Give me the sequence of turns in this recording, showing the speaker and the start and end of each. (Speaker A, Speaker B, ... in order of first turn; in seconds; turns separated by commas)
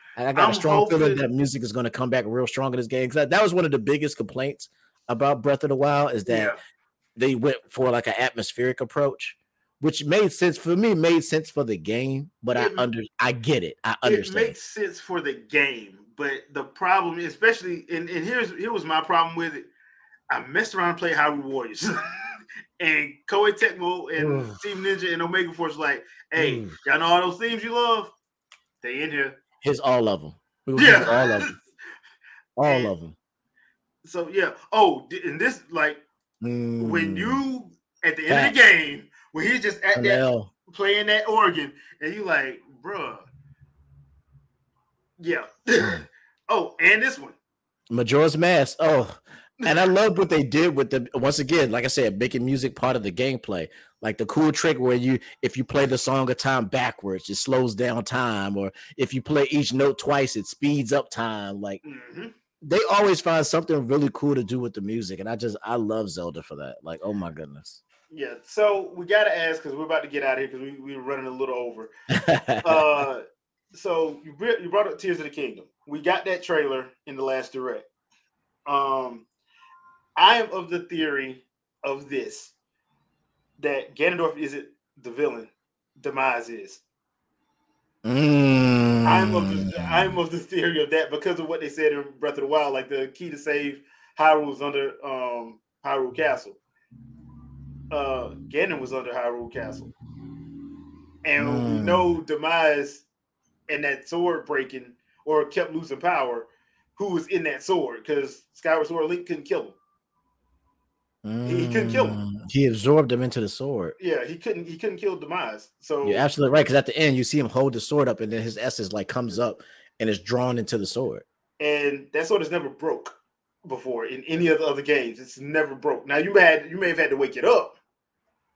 Speaker A: 0.1-6.5, Speaker B: 0.3-1.2, Speaker B: 6.3-6.6, Speaker A: 7.2-14.6, Speaker B: 12.5-12.8, Speaker B: 14.0-19.7, Speaker B: 20.3-21.9, Speaker B: 22.8-28.1, Speaker A: 24.2-24.6, Speaker A: 26.4-26.8, Speaker B: 28.8-29.4, Speaker A: 29.6-31.6, Speaker B: 30.8-31.5, Speaker A: 32.6-33.1, Speaker B: 32.6-32.9, Speaker B: 34.0-36.0, Speaker A: 36.4-37.4, Speaker B: 36.8-43.3, Speaker A: 38.3-38.6, Speaker A: 39.9-40.5, Speaker B: 45.2-47.4, Speaker A: 47.9-61.8, Speaker B: 61.8-62.3, Speaker A: 62.6-67.8, Speaker B: 68.1-71.9, Speaker A: 72.1-72.8, Speaker B: 72.6-77.8, Speaker B: 78.7-79.3, Speaker B: 80.2-82.5, Speaker B: 83.6-86.8, Speaker A: 88.0-90.2, Speaker B: 89.0-96.6, Speaker B: 97.9-99.9, Speaker B: 101.2-103.0, Speaker A: 101.4-102.1, Speaker B: 103.7-109.8, Speaker A: 111.2-113.9, Speaker B: 111.4-112.2, Speaker B: 114.0-116.2, Speaker A: 116.0-121.2, Speaker B: 121.6-127.7